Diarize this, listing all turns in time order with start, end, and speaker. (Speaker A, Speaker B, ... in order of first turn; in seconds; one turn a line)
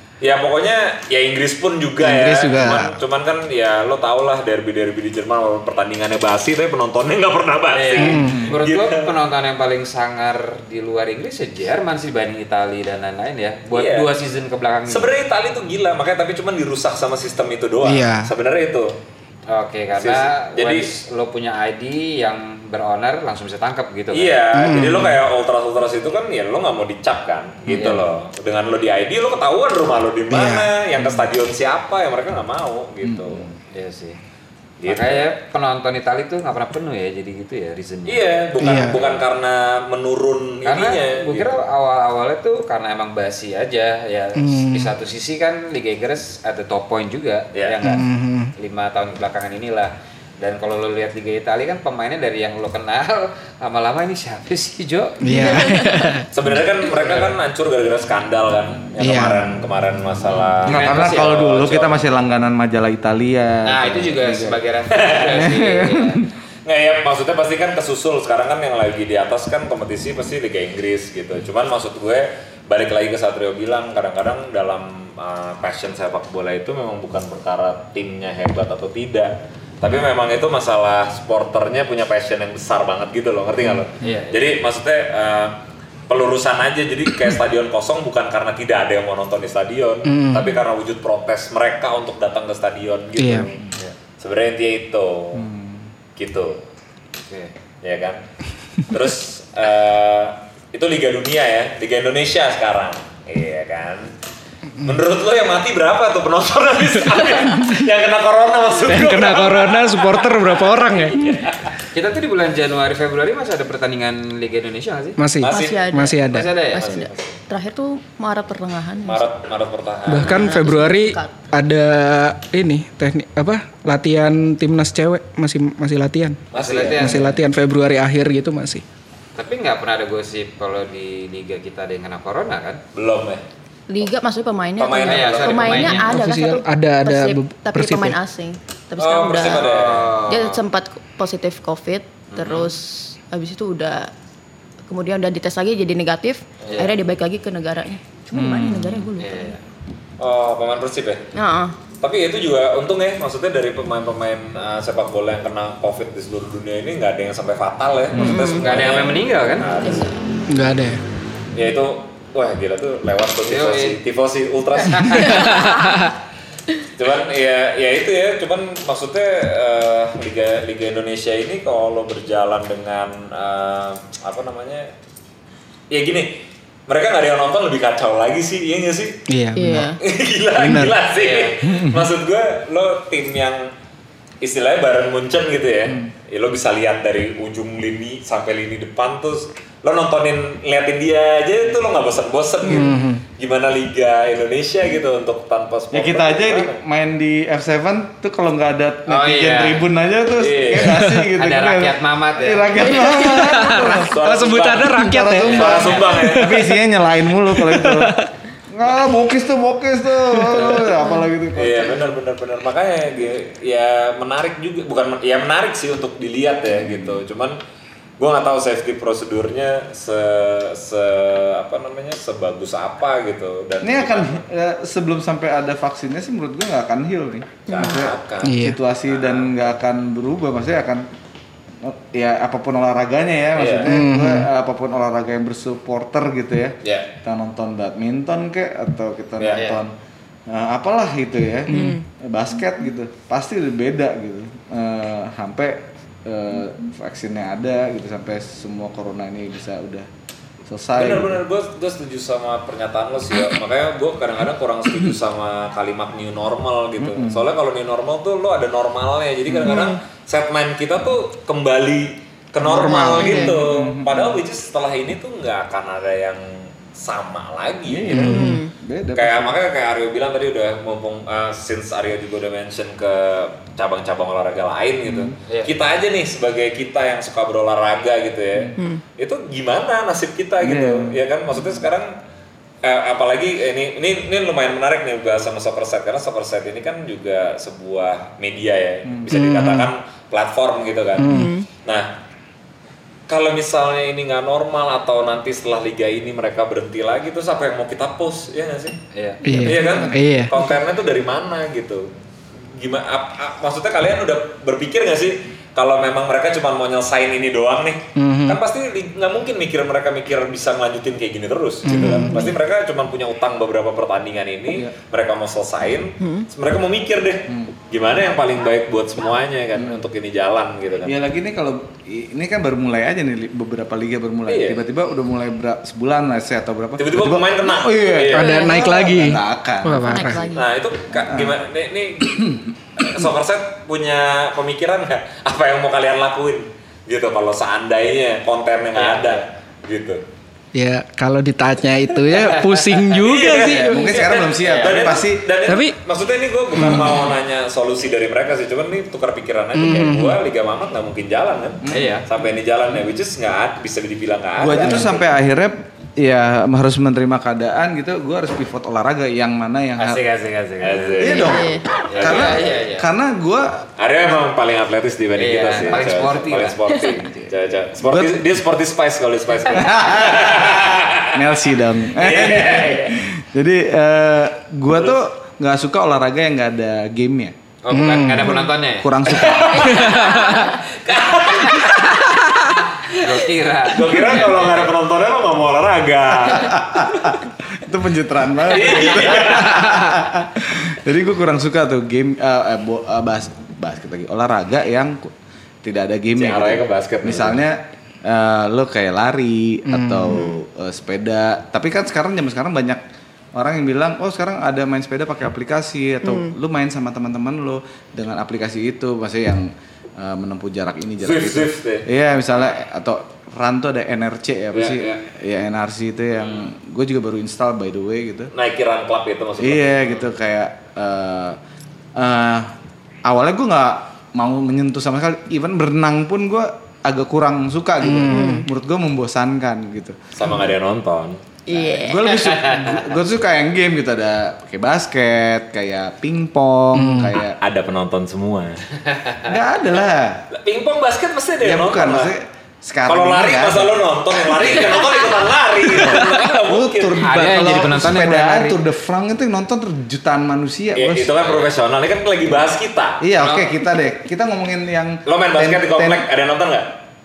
Speaker A: 0.2-9.1
Speaker B: 2.0-3.0
Speaker C: 7.7-15.1
Speaker B: 8.0-8.4
Speaker D: 8.2-8.6
Speaker A: 13.7-14.1
Speaker A: 14.9-18.9
Speaker B: 17.8-18.3
Speaker C: 19.5-24.4
Speaker A: 20.0-20.9
Speaker A: 24.1-33.5
Speaker B: 24.5-25.2
Speaker C: 27.7-28.1
Speaker B: 30.3-30.7
Speaker D: 31.0-31.3
Speaker D: 33.0-33.3
Speaker C: 33.5-34.2
Speaker A: 34.8-35.3
Speaker C: 34.8-38.3
Speaker A: 38.1-41.6
Speaker B: 38.6-39.0
Speaker C: 38.9-39.2
Speaker C: 40.6-55.9
Speaker B: 44.4-44.9
Speaker A: 47.5-47.8
Speaker B: 47.8-48.5
Speaker B: 55.2-56.3
Speaker E: 55.3-55.7
Speaker A: 56.3-62.0
Speaker C: 56.9-57.4
Speaker B: 59.0-59.5
Speaker C: 60.3-61.6
Speaker D: 60.7-64.6
Speaker C: 63.6-66.2
Speaker A: 64.9-65.5
Speaker D: 65.2-66.3
Speaker A: 66.7-93.6
Speaker C: 84.0-84.5
Speaker B: 90.0-90.5
Speaker B: 93.2-93.5
Speaker A: 94.2-95.5
Speaker D: 95.3-95.8
Speaker A: 96.2-96.6
Speaker C: 97.3-97.5
Speaker A: 97.8-98.2
Speaker A: 98.8-104.1
Speaker A: 104.8-111.6
Speaker B: 107.1-107.8
Speaker B: 108.9-111.4
Speaker C: 111.9-115.2
Speaker B: 115.2-116.5
Speaker A: 115.4-116.0
Speaker E: 115.5-119.2
Speaker C: 116.2-117.1
Speaker A: 116.8-117.3
Speaker A: 119.0-120.5
Speaker B: 120.1-126.4
Speaker E: 120.2-121.5
Speaker A: 126.5-127.3
Speaker C: 126.5-127.4
Speaker B: 126.9-128.8
Speaker C: 129.4-132.8
Speaker A: 132.9-133.4
Speaker E: 133.9-139.7
Speaker A: 134.8-136.0
Speaker C: 135.0-136.2
Speaker B: 136.0-138.2
Speaker A: 139.0-140.1
Speaker C: 139.4-140.6
Speaker E: 140.3-144.1
Speaker C: 142.3-142.7
Speaker E: 144.9-149.6
Speaker C: 146.7-146.9
Speaker D: 148.3-149.1
Speaker C: 149.2-149.6
Speaker A: 150.2-151.2
Speaker E: 151.3-151.8
Speaker A: 152.0-160.1
Speaker D: 158.1-158.4
Speaker E: 158.2-158.8
Speaker C: 158.6-160.0
Speaker E: 159.8-160.2
Speaker B: 160.5-161.0
Speaker A: 161.5-165.6
Speaker C: 163.5-164.0
Speaker C: 164.9-165.6
Speaker B: 165.4-166.0
Speaker A: 167.0-174.9
Speaker A: 175.9-179.2
Speaker B: 179.3-179.9
Speaker E: 179.6-180.0
Speaker A: 180.0-183.7
Speaker B: 180.6-181.0
Speaker C: 181.1-181.6
Speaker D: 181.6-182.1
Speaker A: 184.4-196.8
Speaker B: 192.7-193.2
Speaker D: 195.9-204.1
Speaker C: 199.1-199.9
Speaker A: 200.3-201.0
Speaker B: 200.9-201.2
Speaker C: 201.3-203.3
Speaker B: 203.2-206.6
Speaker A: 204.1-206.7
Speaker D: 204.9-212.1
Speaker C: 205.4-206.2
Speaker B: 207.5-208.3
Speaker A: 211.6-217.6
Speaker D: 216.7-217.2
Speaker A: 218.2-224.4
Speaker D: 223.8-231.1
Speaker A: 227.7-229.5
Speaker E: 227.7-228.0
Speaker B: 228.4-228.8
Speaker D: 231.8-239.9
Speaker A: 233.6-233.9
Speaker B: 233.8-234.5
Speaker A: 236.8-237.1
Speaker A: 239.4-239.7
Speaker C: 239.5-239.8
Speaker D: 240.5-250.1
Speaker B: 241.7-242.0
Speaker E: 241.7-242.0
Speaker D: 250.7-251.4
Speaker A: 251.0-268.4
Speaker D: 257.0-257.5
Speaker D: 259.5-259.8
Speaker E: 259.7-260.0
Speaker B: 262.6-263.5
Speaker D: 263.1-264.4
Speaker D: 267.9-269.6
Speaker B: 268.1-268.6
Speaker E: 268.2-268.7
Speaker A: 269.1-282.1
Speaker D: 275.1-275.4
Speaker C: 275.5-275.8
Speaker E: 278.8-279.0
Speaker D: 280.6-281.2
Speaker A: 282.8-291.3
Speaker B: 289.3-289.9
Speaker B: 291.2-291.5
Speaker E: 291.2-291.7
Speaker A: 291.9-292.1
Speaker A: 293.3-299.0
Speaker C: 299.1-299.8
Speaker B: 299.4-300.6
Speaker A: 299.5-302.1
Speaker A: 302.7-321.2
Speaker B: 308.2-308.6
Speaker B: 311.9-312.4
Speaker E: 316.2-316.5
Speaker D: 319.8-320.0
Speaker D: 321.1-330.0
Speaker A: 324.5-324.9
Speaker A: 327.0-328.8
Speaker B: 328.3-330.4
Speaker E: 328.4-329.1
Speaker E: 329.8-330.7
Speaker A: 330.5-340.2
Speaker D: 331.1-331.5
Speaker D: 332.2-332.6
Speaker C: 338.9-339.4
Speaker B: 340.7-344.0
Speaker A: 343.1-355.2
Speaker D: 343.5-345.4
Speaker C: 343.7-344.0
Speaker C: 344.6-345.1
Speaker B: 345.7-346.0
Speaker D: 346.8-347.2
Speaker B: 349.8-350.4
Speaker D: 351.8-352.2
Speaker C: 351.9-352.3
Speaker D: 354.6-360.2
Speaker C: 354.7-355.2
Speaker C: 360.0-361.5
Speaker A: 360.8-361.6
Speaker D: 361.2-363.9
Speaker E: 361.2-361.9
Speaker C: 362.1-363.1
Speaker A: 362.2-362.6
Speaker A: 364.0-371.5
Speaker C: 365.4-366.8
Speaker D: 368.0-368.4
Speaker D: 369.7-377.6
Speaker A: 372.1-373.2
Speaker A: 374.9-375.2
Speaker C: 377.8-379.1
Speaker B: 377.9-378.7
Speaker D: 378.4-380.1
Speaker A: 379.3-383.4
Speaker B: 379.8-380.7
Speaker C: 383.1-384.9
Speaker A: 383.9-387.3
Speaker D: 386.5-395.3
Speaker A: 388.6-389.8
Speaker C: 388.9-389.3
Speaker D: 395.8-403.0
Speaker A: 396.4-397.6
Speaker B: 399.9-400.5
Speaker D: 403.6-418.5
Speaker E: 406.2-406.5
Speaker A: 411.2-412.1
Speaker A: 414.7-415.2
Speaker A: 418.5-420.2
Speaker D: 419.6-421.6
Speaker D: 422.2-422.7
Speaker D: 423.2-430.5
Speaker B: 428.0-428.7
Speaker E: 428.3-428.6
Speaker A: 430.4-431.4
Speaker E: 431.7-432.3
Speaker D: 431.9-437.6
Speaker C: 432.3-433.0
Speaker B: 436.9-437.4
Speaker A: 437.6-438.8
Speaker C: 439.1-439.4
Speaker D: 439.4-440.4
Speaker A: 440.5-442.3
Speaker D: 441.6-444.0
Speaker A: 443.1-447.3
Speaker D: 444.6-445.0
Speaker D: 446.6-451.6
Speaker C: 447.2-448.8
Speaker A: 450.9-453.2
Speaker D: 453.2-456.2
Speaker C: 453.4-453.8
Speaker A: 455.3-456.9